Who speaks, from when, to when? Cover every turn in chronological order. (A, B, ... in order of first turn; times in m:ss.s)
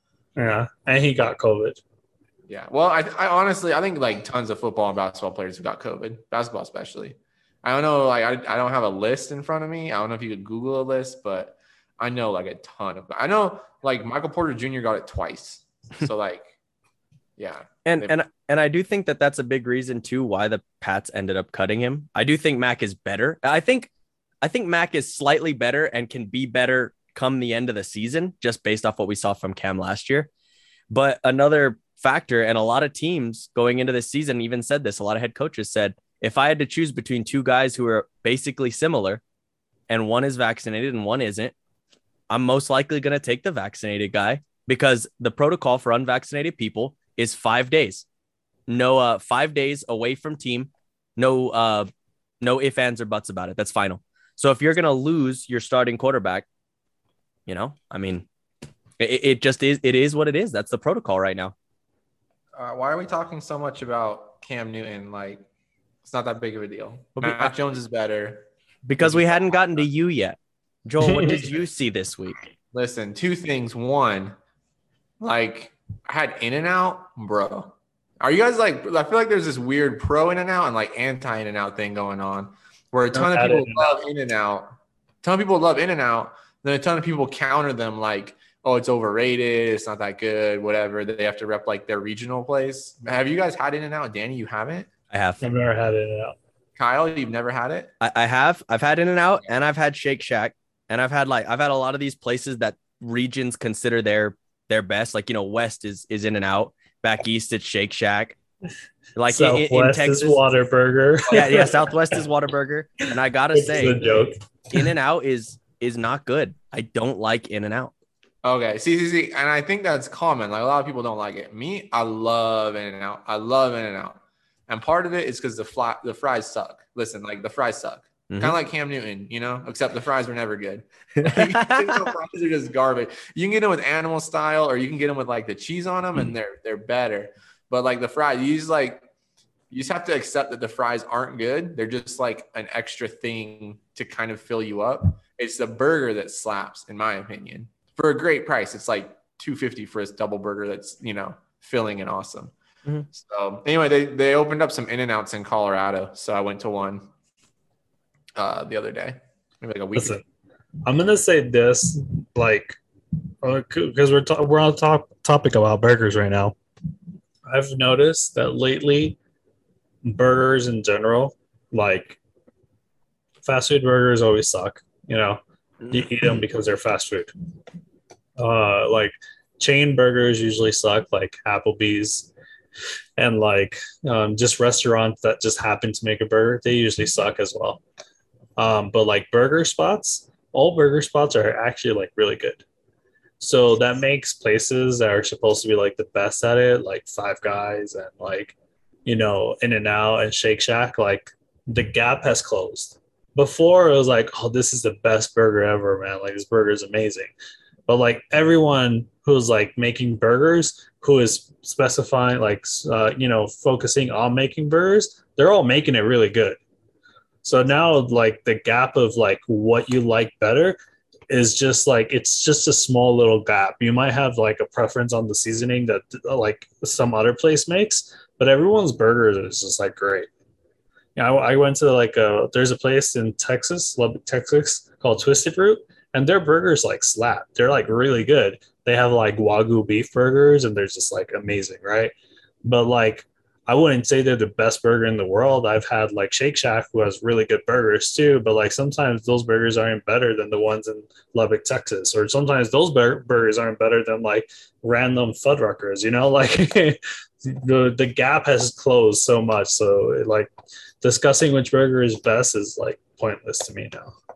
0:00.4-0:01.8 A
0:02.5-0:16.5 B
0:17.4-0:18.1 B
0:17.8-0:23.9 C
0:24.4-0:30.3 C
0:30.9-0:39.2 C
0:39.9-0:41.5 C
0:42.3-0:48.0 C
0:48.7-0:51.9 C
0:52.4-0:56.4 C
0:57.5-0:58.3 C
0:59.0-1:01.5 C
1:02.5-1:05.4 B
1:06.0-1:08.4 B
1:07.2-1:07.5 C
1:08.8-1:12.4 C
1:09.0-1:09.8 B
1:11.0-1:11.5 A
1:12.7-1:14.4 B
1:15.2-1:34.9 B
1:23.1-1:24.0 A
1:35.1-1:35.4 C
1:35.4-1:36.4 A
1:36.8-1:37.9 B
1:38.0-1:48.4 C
1:49.2-1:50.4 C
1:49.3-1:51.9 A
1:51.3-1:54.0 C
1:53.5-1:54.8 A
1:54.7-1:57.9 C
1:58.4-2:19.0 B
2:08.3-2:08.6 C
2:11.2-2:12.0 C
2:19.7-2:32.5 B
2:33.1-2:37.1 B
2:38.3-2:40.2 B
2:40.0-2:40.2 A
2:40.8-2:42.8 A
2:43.4-2:46.6 A
2:47.5-2:49.2 A
2:50.0-2:52.2 A
2:53.4-2:57.3 A
2:58.4-3:02.3 A
3:03.2-3:07.8 A
3:08.6-3:12.6 A
3:13.4-3:18.5 A
3:19.0-3:27.3 A
3:27.9-3:36.6 A
3:37.4-3:40.8 A
3:41.3-3:50.3 A
3:51.2-4:20.5 A
4:21.0-4:24.1 A